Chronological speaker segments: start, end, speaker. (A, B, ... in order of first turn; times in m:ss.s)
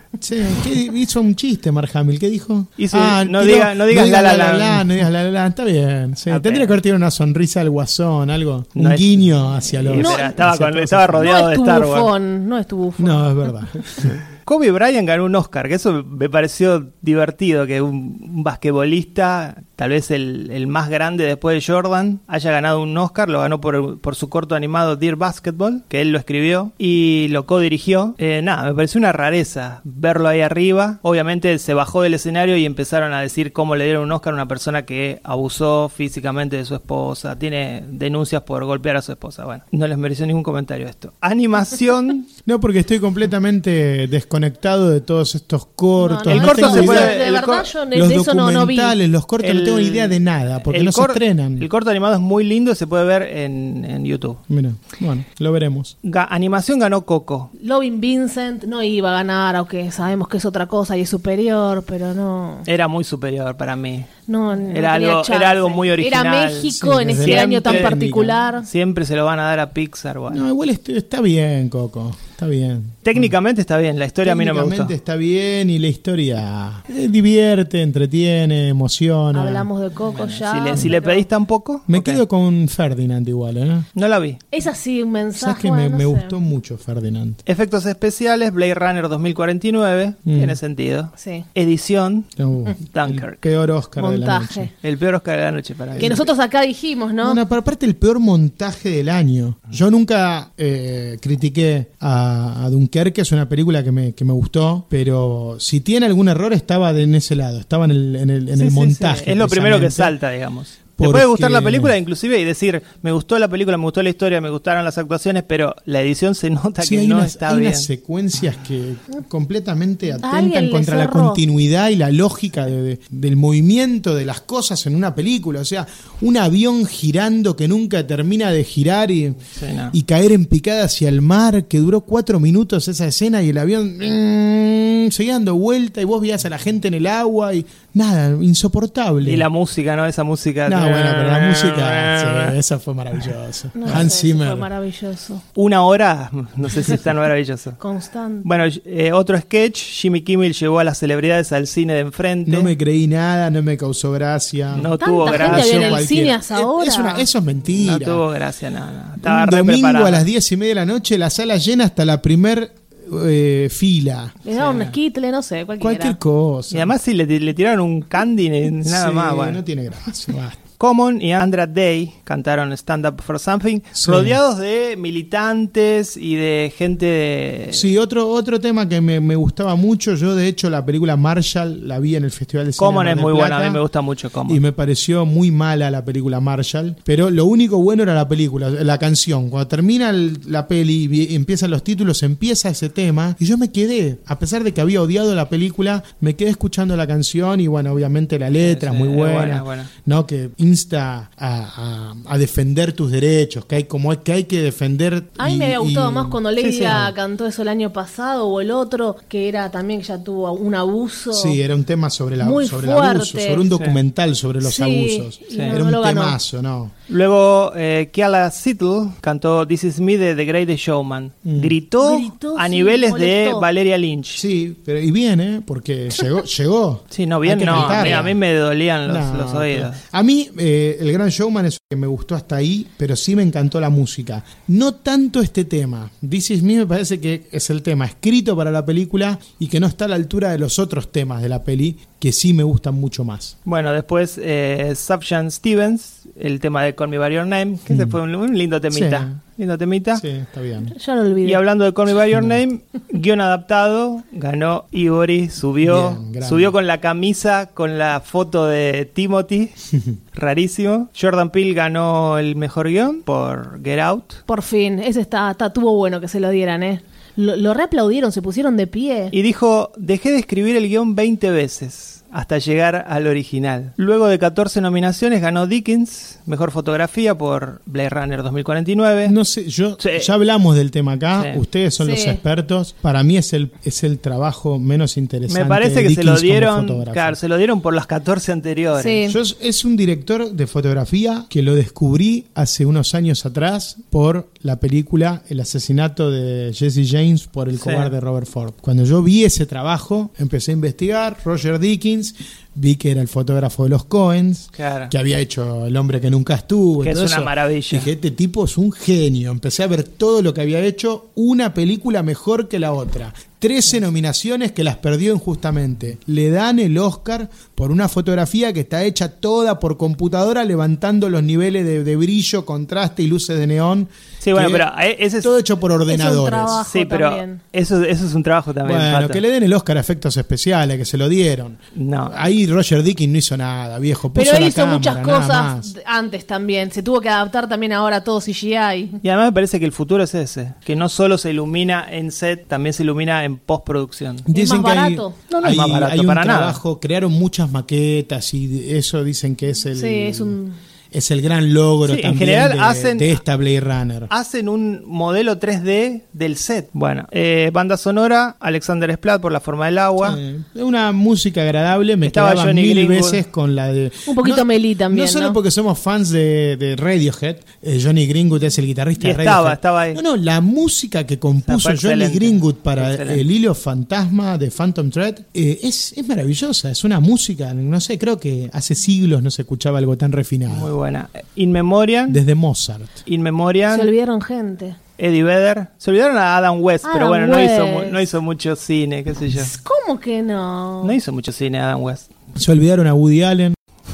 0:00.2-0:11.3 A
0:02.8-0:04.9 B
0:06.3-0:06.7 B
0:08.8-0:09.1 B
0:09.8-0:12.1 B
0:09.9-0:10.3 C
0:11.2-0:13.3 C
0:13.0-0:14.2 A
0:14.4-0:42.3 B
0:42.4-0:47.2 A
0:46.0-0:49.0 C
0:46.3-0:47.7 B
0:47.9-0:51.7 A
0:49.4-0:54.4 B
0:54.5-0:55.9 A
0:56.0-0:57.5 B
0:57.6-1:02.7 C
1:02.6-1:04.1 B
1:04.3-1:08.7 C
1:04.7-1:08.0 B
1:06.8-1:08.4 A
1:08.6-1:10.4 B
1:10.3-1:13.2 A
1:13.0-1:14.9 B
1:14.2-1:19.7 A
1:19.3-1:21.2 C
1:20.1-1:22.2 B
1:21.9-1:23.9 A
1:24.0-1:24.4 B
1:24.5-1:26.4 C
1:25.4-1:27.4 A
1:27.4-1:32.3 B
1:30.2-1:30.6 A
1:31.2-1:31.4 C
1:32.4-1:34.7 A
1:32.9-1:33.4 B
1:34.0-1:34.7 C
1:34.8-1:36.1 B
1:36.0-1:36.3 A
1:36.0-1:37.4 C
1:37.2-1:50.1 A
1:48.5-1:57.9 B
1:51.0-1:51.9 A
1:56.8-2:09.4 A
2:00.2-2:01.4 C
2:09.6-2:10.0 B
2:09.9-2:19.4 A
2:19.2-2:22.6 B
2:20.6-2:24.7 A
2:23.8-2:25.4 C
2:25.6-2:27.8 B
2:27.8-2:28.5 C
2:28.4-2:32.7 B
2:32.4-2:38.2 A
2:34.7-2:36.0 B
2:35.0-2:37.3 C
2:37.7-2:40.2 B
2:39.2-2:44.4 A
2:44.4-2:46.2 C
2:44.5-2:44.9 B
2:45.8-2:46.9 A
2:46.7-2:49.6 B
2:48.8-2:50.6 A
2:50.8-2:57.9 B
2:54.0-2:54.4 A
2:57.7-3:03.8 A
3:02.8-3:04.6 B
3:04.4-3:27.1 A
3:18.6-3:19.9 B
3:25.4-3:31.6 C
3:26.6-3:27.0 B
3:31.3-3:36.9 A
3:32.4-3:33.7 C
3:33.7-3:34.0 B
3:34.6-3:36.4 C
3:35.5-3:35.8 B
3:37.1-3:44.4 B
3:41.4-3:41.7 A
3:42.0-3:43.7 C
3:44.3-3:48.4 A
3:47.1-3:50.0 B
3:49.0-4:03.5 A
4:03.6-4:10.2 B
4:07.9-4:08.2 A
4:08.9-4:09.3 A
4:10.2-4:10.9 A
4:10.9-4:11.6 C
4:11.4-4:19.7 B
4:15.8-4:16.7 A
4:20.3-4:24.4 B
4:24.5-4:29.3 C
4:29.3-4:39.4 B
4:39.2-4:47.4 A
4:40.0-4:40.3 B
4:42.0-4:42.4 C
4:45.5-4:49.3 B
4:49.0-4:49.4 C
4:49.3-5:24.8 A
4:57.8-4:58.1 B
5:04.8-5:05.1 B
5:07.0-5:08.1 B
5:24.4-5:25.5 B
5:25.4-5:26.8 A
5:26.1-5:27.6 C
5:26.8-5:29.4 B
5:28.8-5:35.9 A
5:31.9-5:32.4 B
5:34.3-5:39.2 C
5:39.2-5:44.4 B
5:44.4-5:50.6 A
5:44.5-5:45.4 C
5:45.5-5:46.8 B
5:49.9-5:50.8 C
5:51.1-5:54.3 A
5:52.0-5:53.4 B
5:54.3-6:00.4 B
6:00.2-6:20.9 A
6:02.2-6:03.4 B
6:04.2-6:05.6 C
6:09.2-6:10.2 B
6:11.6-6:13.4 B
6:20.7-6:22.4 B
6:22.3-6:23.2 A
6:23.2-6:24.1 B
6:23.9-6:25.0 C
6:25.2-6:29.7 B
6:27.0-6:28.2 C
6:29.6-6:31.2 C
6:31.0-6:32.3 B
6:32.6-6:33.8 A